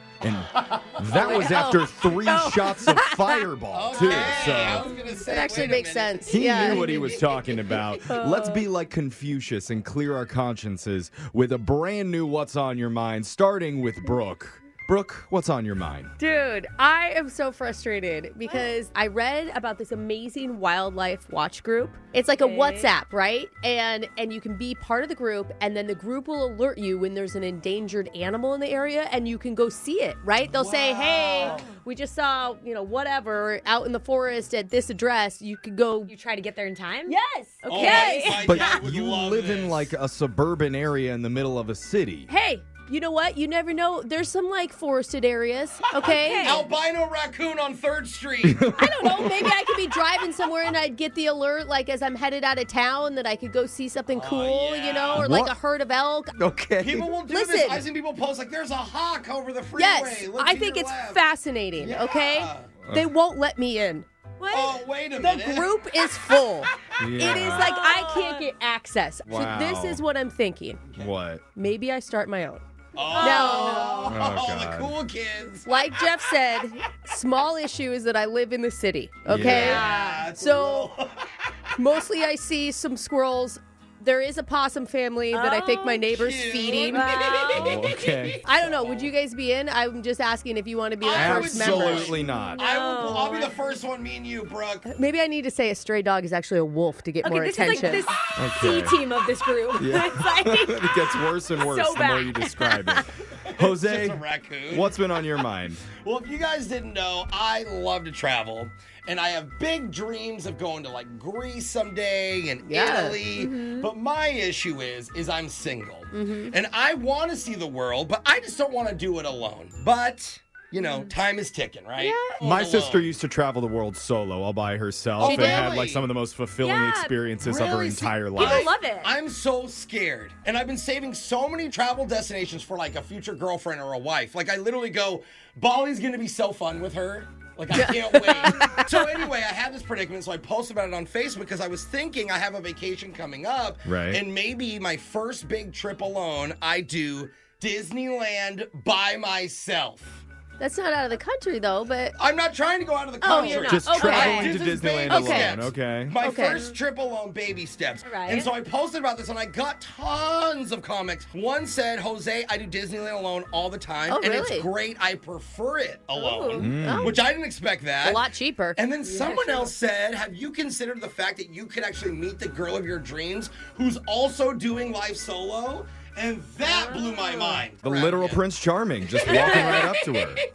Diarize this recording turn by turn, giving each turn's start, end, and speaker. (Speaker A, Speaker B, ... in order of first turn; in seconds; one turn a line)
Speaker A: 0.2-4.9
Speaker B: 1.0-1.4
Speaker C: 1.1-3.4
Speaker B: 3.7-7.6
Speaker C: 4.0-8.7
Speaker D: 4.1-4.9
Speaker A: 6.3-16.1
Speaker C: 16.2-36.1
Speaker D: 22.4-22.9
Speaker B: 30.5-31.8
Speaker D: 31.4-31.7
Speaker D: 36.1-37.1
Speaker C: 37.1-38.4
Speaker D: 37.6-38.8
Speaker B: 37.7-39.9
Speaker A: 38.4-42.3
Speaker C: 42.3-46.7
Speaker B: 46.0-48.7
Speaker D: 46.0-46.6
Speaker A: 48.4-49.5
Speaker C: 48.8-56.4
Speaker B: 54.1-55.3
Speaker A: 55.1-55.5
Speaker A: 56.4-57.1
Speaker B: 56.8-61.2
Speaker C: 57.2-57.9
Speaker C: 59.8-64.1
Speaker B: 61.8-62.8
Speaker D: 64.4-64.8
Speaker B: 64.5-65.7
Speaker C: 65.2-70.9
Speaker A: 67.0-67.7
Speaker D: 67.3-68.5
Speaker A: 69.3-70.0
Speaker B: 70.8-71.1
Speaker A: 71.0-71.4
Speaker C: 71.5-74.1
Speaker B: 73.0-76.2
Speaker D: 73.0-74.2
Speaker A: 74.0-75.0
Speaker C: 75.7-81.0
Speaker A: 79.3-79.8
Speaker B: 79.3-81.3
Speaker D: 79.5-80.3
Speaker C: 81.8-87.5
Speaker D: 85.3-86.0
Speaker B: 86.0-89.1
Speaker D: 86.8-87.9
Speaker A: 87.5-88.4
Speaker C: 88.4-92.3
Speaker B: 91.0-94.9
Speaker A: 91.1-92.6
Speaker D: 92.3-93.5
Speaker C: 94.8-98.1
Speaker D: 97.2-103.1
Speaker A: 98.4-99.0
Speaker A: 99.8-105.8
Speaker B: 103.5-123.1
Speaker C: 112.7-113.4
Speaker D: 113.4-113.9
Speaker C: 116.1-116.6
Speaker D: 120.8-121.1
Speaker C: 122.0-122.5
Speaker A: 122.4-128.6
Speaker B: 125.2-126.1
Speaker C: 125.2-125.8
Speaker D: 126.6-127.2
Speaker B: 127.4-150.2
Speaker D: 128.3-129.1
Speaker C: 137.7-139.0
Speaker A: 143.8-144.2
Speaker C: 150.6-152.2
Speaker B: 152.2-168.2
Speaker C: 153.2-155.7
Speaker D: 153.3-154.6
Speaker A: 153.7-156.2
Speaker C: 156.2-156.7
Speaker D: 158.0-158.5
Speaker C: 164.1-164.7
Speaker C: 166.2-167.3
Speaker A: 166.6-167.1
Speaker C: 168.0-169.7
Speaker B: 168.8-178.4
Speaker C: 176.7-177.6
Speaker A: 177.8-180.4
Speaker D: 179.1-180.5
Speaker B: 179.3-180.0